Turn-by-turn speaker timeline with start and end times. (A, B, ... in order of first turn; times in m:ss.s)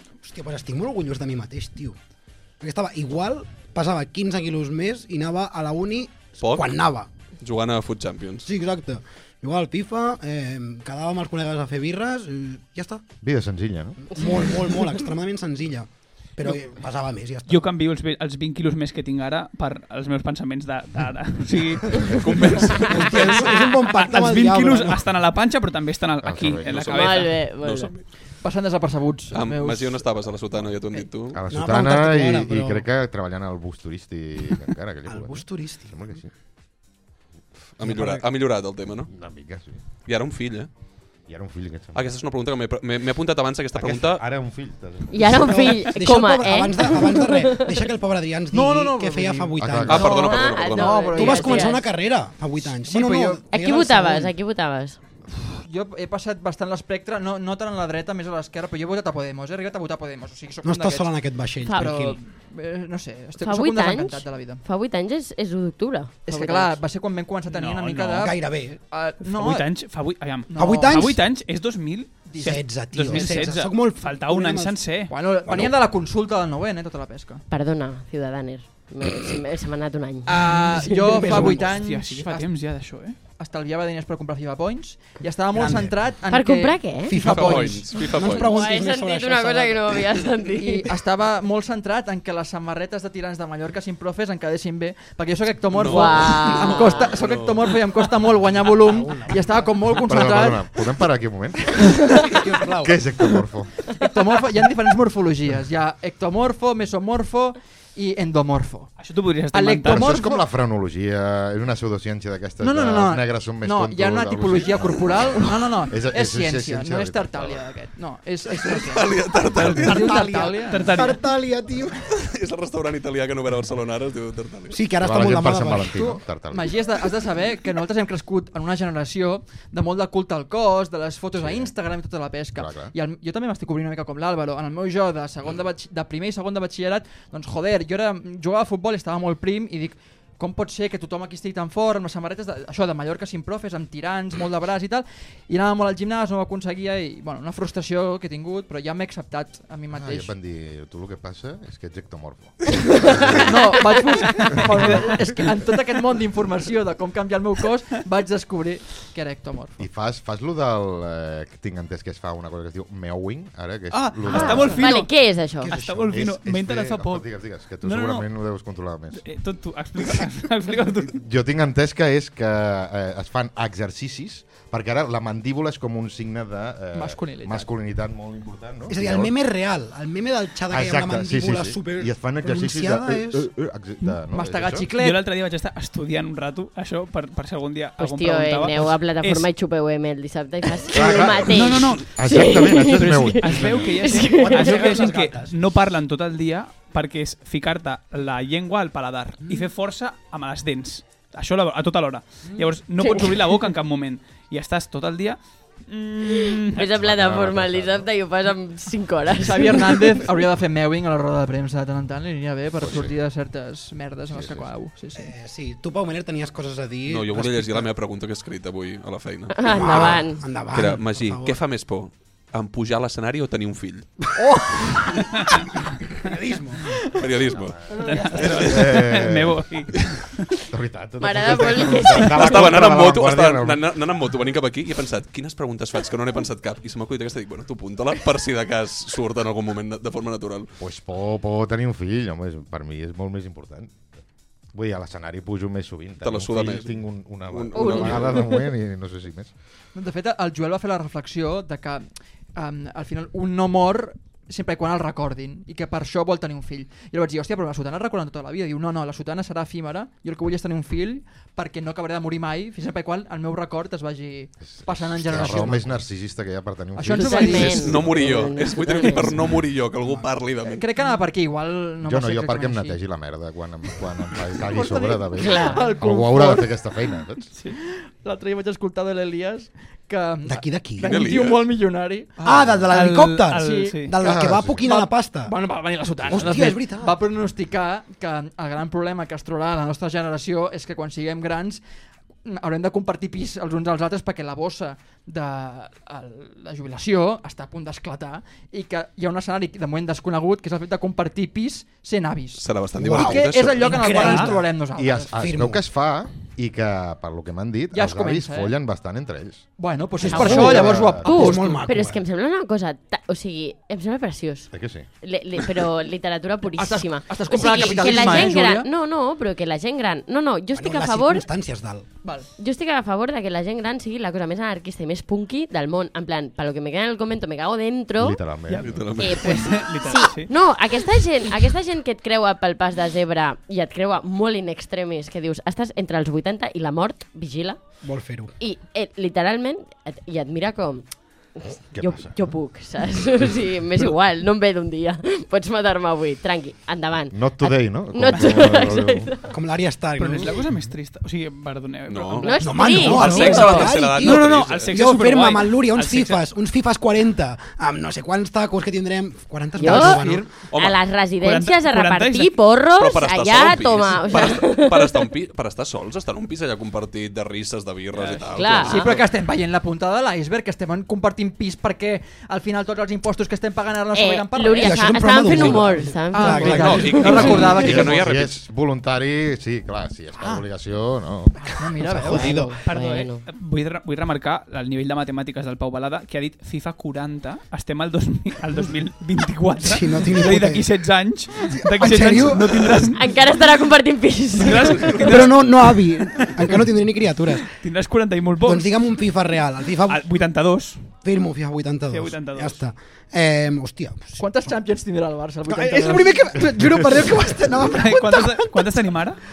0:00.2-0:02.0 A
0:02.6-0:07.1 A
0:06.4-0:06.7 B
0:07.4-0:08.5 B
0:08.4-0:13.0 A
0:13.2-0:14.0 C
0:14.1-0:17.7 A
0:17.5-0:27.4 D
0:22.1-0:23.4 B
0:22.9-0:25.1 A
0:26.2-0:27.2 C
0:26.8-0:27.9 E
0:27.0-0:28.0 B
0:28.4-0:30.1 F
0:29.3-0:31.4 B
0:31.3-0:36.3 C
0:31.5-0:32.9 A
0:35.1-0:36.0 A
0:37.8-0:39.1 B
0:37.8-0:38.3 A
0:39.1-0:39.8 C
0:40.0-0:40.7 B
0:41.3-0:42.1 C
0:42.0-0:44.2 B
0:43.8-0:45.7 C
0:45.1-0:47.8 E
0:45.4-0:50.2 A
0:48.5-0:51.8 F
0:49.6-0:50.3 C
0:49.9-0:51.2 B
0:50.2-0:51.9 E
0:51.1-0:54.3 A
0:52.6-0:53.4 F
0:53.5-0:55.0 E
0:55.5-1:01.1 F
1:00.6-1:02.2 A
1:01.6-1:02.1 E
1:01.7-1:04.6 F
1:03.4-1:06.8 E
1:06.3-1:09.8 F
1:07.5-1:08.3 D
1:08.2-1:08.8 A
1:09.2-1:15.1 D
1:10.5-1:11.1 F
1:10.6-1:11.2 A
1:12.3-1:13.5 F
1:12.4-1:14.8 A
1:15.1-1:17.4 F
1:15.5-1:15.8 C
1:17.5-1:21.2 E
1:20.2-1:22.8 F
1:21.0-1:21.8 A
1:21.1-1:23.2 D
1:23.4-1:27.9 F
1:25.5-1:26.0 A
1:26.3-1:27.2 E
1:27.0-1:30.2 A
1:27.2-1:28.5 B
1:28.2-1:30.9 E
1:30.6-1:40.6 F
1:35.7-1:37.8 B
1:35.9-1:37.1 E
1:38.4-1:39.8 A
1:40.0-1:42.2 C
1:42.2-1:43.0 A
1:42.7-1:43.8 C
1:44.0-1:49.0 F
1:49.0-1:50.2 D
1:49.5-1:50.4 F
1:49.8-1:57.7 C
1:52.6-2:00.9 F
1:58.6-2:00.2 B
1:59.6-2:02.0 A
2:00.7-2:01.2 D
2:02.0-2:04.8 B
2:04.7-2:06.2 A
2:05.0-2:06.8 C
2:06.0-2:30.3 F
2:11.4-2:11.7 C
2:12.6-2:12.9 C
2:30.0-2:33.8 C
2:33.4-2:39.8 F
2:34.5-2:35.1 C
2:39.8-2:44.8 C
2:43.9-2:47.3 D
2:44.3-2:44.6 A
2:44.4-2:45.8 E
2:44.4-2:44.8 F
2:45.6-2:46.3 A
2:46.1-2:49.2 C
2:47.8-2:48.3 D
2:49.2-2:51.2 D
2:51.0-2:59.3 C
2:56.9-2:57.7 F
2:58.9-3:03.5 A
3:00.7-3:04.9 C
3:04.3-3:05.2 F
3:05.0-3:09.5 D
3:08.0-3:15.0 E
3:10.9-3:14.0 C
3:11.5-3:12.2 D
3:12.9-3:26.8 D
3:14.2-3:15.6 A
3:22.5-3:22.7 A
3:23.0-3:23.4 E
3:26.2-3:30.2 E
3:26.9-3:28.1 C
3:29.4-3:35.3 F
3:32.8-3:33.1 C
3:34.3-3:34.7 C
3:35.2-3:37.9 A
3:37.1-3:39.6 B
3:39.5-3:40.5 E
3:39.7-3:41.6 A
3:40.7-3:44.3 B
3:45.3-3:45.6 D
3:46.2-3:47.0 A
3:47.1-3:47.8 B
3:47.5-3:50.0 C
3:47.9-3:48.7 F
3:48.1-3:50.5 D
3:50.7-3:53.8 C
3:51.2-3:52.7 E
3:52.3-4:00.7 B
4:00.8-4:04.0 C
4:04.7-4:09.5 C
4:06.2-4:08.4 B
4:07.7-4:08.7 E
4:10.0-4:25.9 F
4:24.6-4:28.3 C
4:25.4-4:25.8 A
4:27.0-4:28.1 F
4:27.1-4:29.4 E
4:27.6-4:30.8 B
4:30.6-4:33.0 F
4:32.0-4:37.5 C
4:34.6-4:36.8 F
4:35.4-4:36.0 E
4:37.6-4:42.8 F
4:40.4-4:41.2 A
4:41.0-4:41.7 B
4:42.4-4:45.5 A
4:42.9-4:44.2 D
4:43.6-4:51.8 F
4:44.2-4:44.8 C
4:46.3-4:47.2 A
4:52.4-5:05.3 F
5:02.6-5:04.1 B
5:03.0-5:04.7 A
5:04.1-5:04.5 D
5:05.0-5:11.6 C
5:05.3-5:05.8 A
5:07.9-5:08.7 F
5:09.8-5:11.8 F
5:10.2-5:12.2 A
5:10.3-5:14.7 E
5:14.7-5:15.1 C
5:15.2-5:21.5 E
5:16.8-5:18.9 F
5:17.6-5:18.5 A
5:20.7-5:22.1 A
5:22.2-5:22.5 F
5:22.6-5:28.4 E
5:28.2-5:29.4 C
5:28.7-5:30.5 D
5:28.8-5:29.7 B
5:29.2-5:37.8 E
5:38.0-5:38.5 A
5:38.6-5:49.5 E
5:41.9-5:42.6 C
5:47.3-5:49.3 C
5:49.5-5:50.7 A
5:50.2-5:56.4 D
5:52.1-5:54.9 B
5:52.4-5:53.9 E
5:52.6-6:00.5 A
5:59.8-6:05.3 E
5:59.9-6:00.5 F
6:00.7-6:01.0 B
6:01.4-6:02.6 D
6:03.0-6:09.2 B
6:08.2-6:18.3 F
6:08.5-6:09.2 E
6:14.1-6:17.9 E
6:14.8-6:17.7 A
6:16.6-6:18.6 B
6:17.4-6:21.7 C
6:21.6-6:22.7 F
6:22.0-6:22.8 A
6:22.3-6:23.5 E
6:22.8-6:33.3 D
6:29.8-6:30.9 A
6:31.6-6:33.1 A
6:33.1-6:35.3 E
6:34.6-6:36.8 D
6:35.1-6:37.7 A
6:37.6-6:38.9 D
6:38.6-6:40.2 A
6:40.1-6:41.1 D
6:41.2-6:44.7 A
6:42.1-6:42.8 D
6:44.4-6:47.2 F
6:45.7-6:48.9 A
6:47.8-6:49.4 D